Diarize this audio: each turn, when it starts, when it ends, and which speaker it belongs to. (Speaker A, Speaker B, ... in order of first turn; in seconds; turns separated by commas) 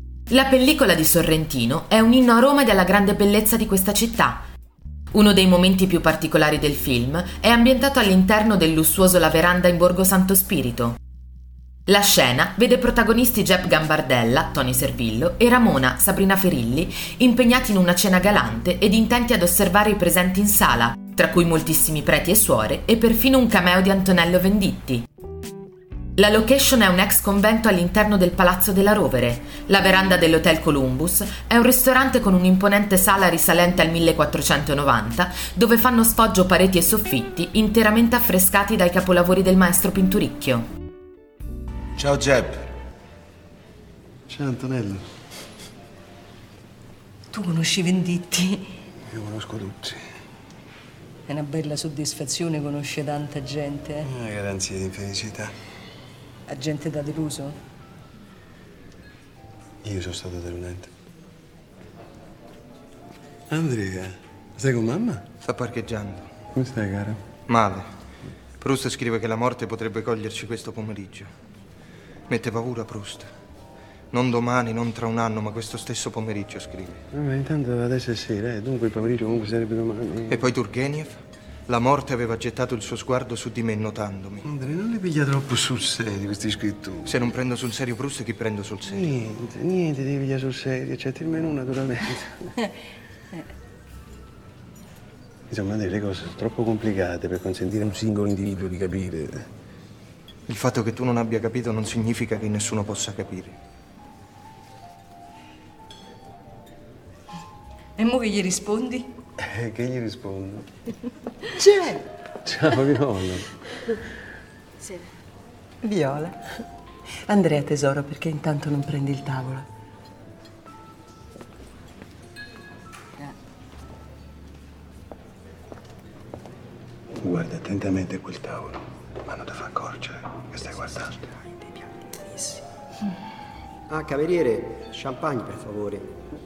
Speaker A: 0.3-4.4, Speaker A: 5.1-11.0, Speaker A: 11.9-25.1, Speaker A: 26.2-40.7, Speaker B: 42.0-42.6, Speaker C: 44.3-45.0, Speaker D: 47.3-48.7, Speaker C: 49.1-50.0, Speaker D: 51.3-54.1, Speaker C: 54.0-55.5, Speaker D: 56.5-57.6, Speaker C: 59.8-60.9, Speaker C: 63.5-65.3, Speaker B: 65.4-66.3, Speaker C: 66.5-67.2, Speaker B: 67.5-67.8, Speaker B: 68.6-71.3, Speaker B: 72.3-73.3, Speaker B: 74.1-77.0, Speaker C: 77.1-80.4, Speaker B: 80.3-81.2, Speaker B: 81.7-84.5, Speaker C: 84.4-87.2, Speaker B: 87.0-89.1, Speaker C: 88.8-92.5, Speaker C: 95.5-99.5, Speaker B: 100.5-103.5, Speaker D: 108.0-109.1, Speaker C: 109.4-110.7, Speaker E: 111.5-112.0, Speaker C: 112.4-113.5, Speaker E: 115.8-116.4, Speaker E: 117.2-119.7, Speaker C: 127.2-131.3, Speaker D: 132.1-132.6, Speaker F: 133.9-136.2